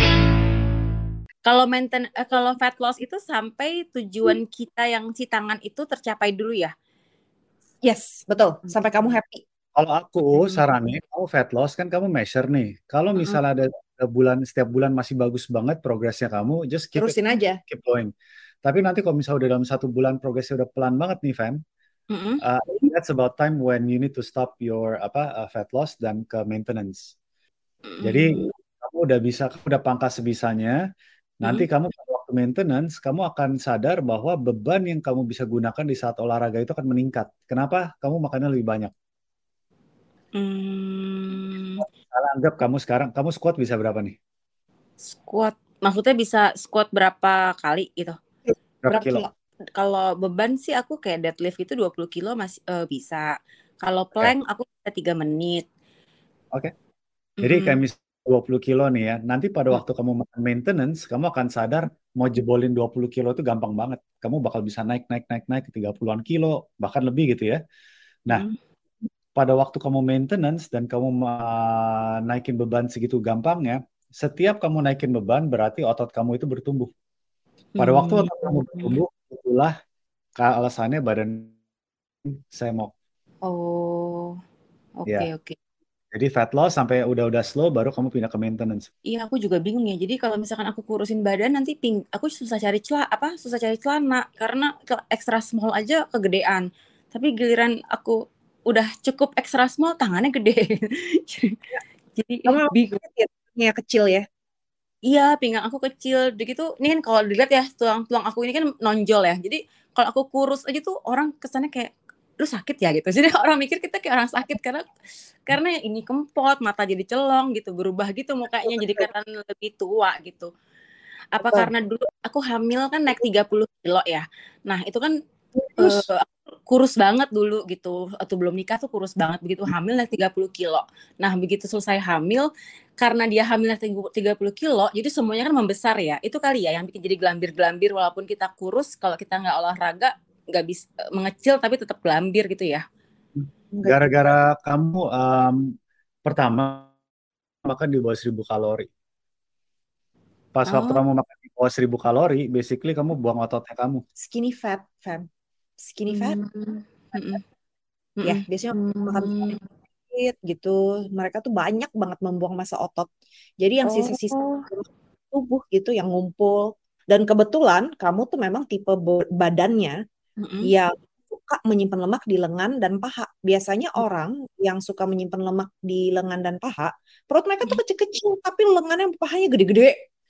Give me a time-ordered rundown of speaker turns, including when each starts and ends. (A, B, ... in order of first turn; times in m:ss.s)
0:01.4-0:06.7 A
0:07.8-0:09.4 B
0:09.8-0:18.1 C
0:17.0-0:17.6 B
0:18.6-0:21.6 C
0:22.1-0:22.4 A
0:22.4-0:27.1 C
0:27.9-0:28.5 A
0:28.0-0:30.8 C
0:31.4-0:38.9 C
0:40.3-0:41.8 A
0:41.8-0:44.1 C
0:45.1-0:48.2 A
0:48.5-0:49.3 B
0:48.8-0:49.2 C
0:49.8-0:55.6 A
0:57.4-0:57.8 A
0:57.4-1:07.6 C
1:08.3-1:08.5 A
1:09.4-1:16.9 C
1:17.8-1:19.0 A
1:17.8-1:19.7 C
1:20.4-1:21.5 C
1:22.5-1:22.9 C
1:23.4-1:24.4 A
1:25.0-1:25.6 A
1:26.1-1:28.9 C
1:29.1-1:41.6 A
1:42.2-1:43.0 A
1:42.4-1:44.2 B
1:45.1-1:54.8 A
1:55.4-2:00.5 A
1:58.6-1:59.1 B
2:01.3-2:05.1 A
2:01.4-2:01.7 B
2:05.6-2:06.0 B
2:05.8-2:22.8 A
2:23.4-2:25.6 C
2:23.7-2:24.3 B
2:26.2-2:26.9 C
2:27.6-2:28.9 C
2:30.5-2:34.0 C
2:30.6-2:31.0 A
2:34.2-2:35.3 B
2:35.8-2:36.4 B
2:36.1-2:37.4 A
2:38.2-2:39.6 A
2:38.2-2:39.6 B
2:40.1-2:43.1 B
2:43.6-2:50.0 B
2:43.8-2:44.6 A
2:50.4-2:50.7 A
2:50.6-3:00.0 B